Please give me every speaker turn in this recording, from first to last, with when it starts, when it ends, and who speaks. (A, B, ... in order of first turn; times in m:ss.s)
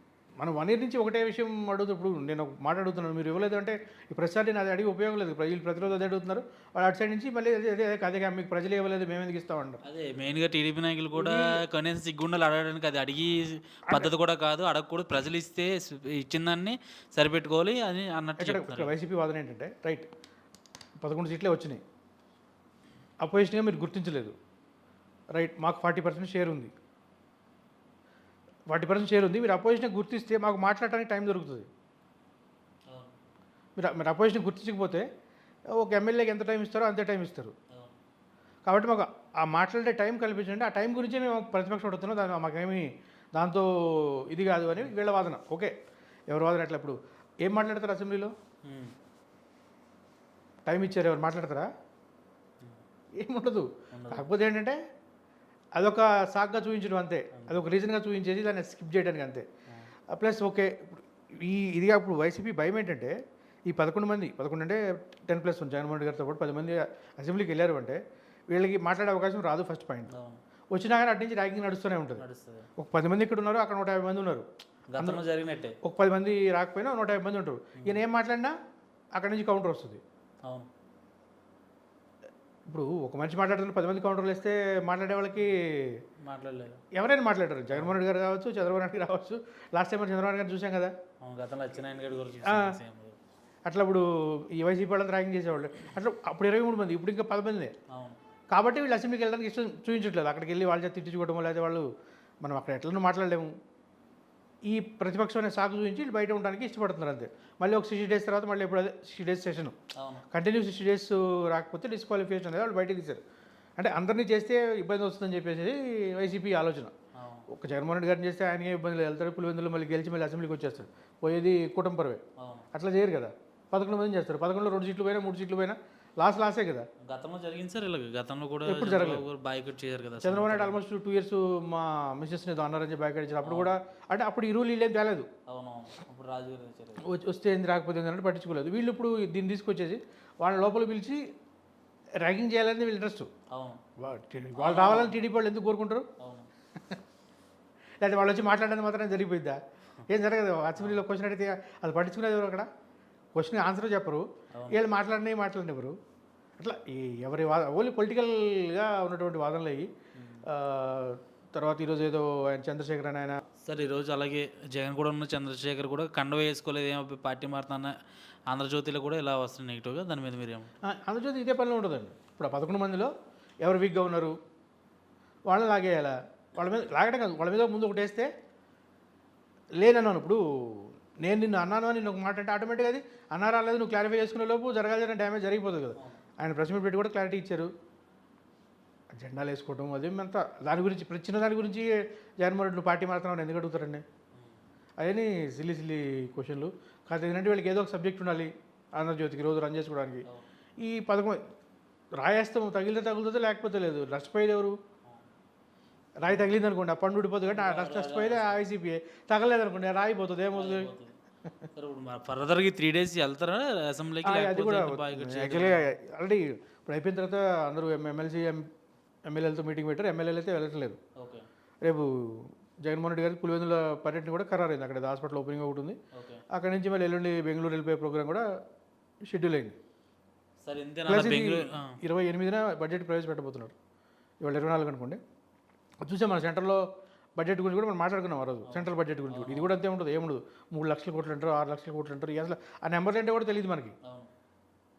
0:00.4-0:09.8 A
0:09.8-0:18.9 B
0:11.1-0:11.5 A
0:18.4-0:20.1 A
0:21.0-0:21.8 A
0:23.2-0:24.3 A
0:25.3-0:26.7 A
0:28.7-0:31.7 A
0:33.8-0:35.0 A
0:35.8-0:37.5 A
0:37.7-0:38.0 B
0:38.6-0:45.7 A
0:46.3-0:48.3 A
0:48.6-0:48.9 B
0:50.6-0:51.7 A
0:53.2-0:54.8 A
0:53.9-0:54.2 B
0:55.8-0:59.4 A
1:00.1-1:03.1 A
1:03.7-1:10.1 A
1:10.1-1:10.4 B
1:10.7-1:12.2 A
1:12.2-1:12.7 B
1:12.8-1:14.4 A
1:14.9-1:15.8 B
1:15.8-1:18.5 A
1:19.2-1:20.0 A
1:22.7-1:26.0 A
1:26.2-1:26.8 B
1:26.9-1:30.9 A
1:31.2-1:33.2 B
1:32.4-1:32.8 A
1:33.6-1:37.7 A
1:37.9-1:38.2 B
1:38.5-1:41.8 A
1:42.4-1:43.5 A
1:44.7-1:49.7 A
1:50.0-1:50.2 B
1:50.3-1:53.2 A
1:53.8-1:56.9 A
1:57.1-1:57.5 B
1:57.5-2:02.2 A
2:02.4-2:02.7 B
2:02.7-2:06.9 A
2:07.0-2:10.8 B
2:08.6-2:09.2 A
2:10.2-2:15.3 A
2:13.4-2:13.7 B
2:15.5-2:17.0 B
2:17.0-2:21.2 A
2:22.2-2:23.3 A
2:23.5-2:23.8 B
2:24.0-2:26.1 A
2:24.6-2:25.1 B
2:26.2-2:26.5 B
2:28.0-2:32.7 A
2:30.8-2:31.0 B
2:33.4-2:35.9 A
2:34.5-2:34.8 B
2:36.6-2:39.9 A
2:40.2-2:40.4 B
2:40.4-2:43.4 A
2:43.5-2:47.9 B
2:48.5-2:50.7 B
2:50.8-2:53.1 A
2:53.6-2:54.4 A
2:55.5-2:58.3 A
2:59.8-3:07.7 A
3:09.2-3:14.0 A
3:15.0-3:20.2 A
3:20.8-3:21.4 A
3:22.2-3:24.8 A
3:26.2-3:30.9 A
3:27.4-3:28.6 B
3:30.5-3:31.1 B
3:31.7-3:35.9 B
3:34.2-3:38.7 A
3:39.3-3:41.0 A
3:41.2-3:41.4 B
3:41.8-3:46.0 A
3:46.1-3:46.4 B
3:46.5-3:48.4 A
3:49.3-3:49.8 A
3:50.6-3:52.0 B
3:51.1-3:53.7 A
3:54.4-3:55.2 A
3:56.0-4:03.9 A
3:58.6-3:59.7 B
4:04.0-4:04.3 B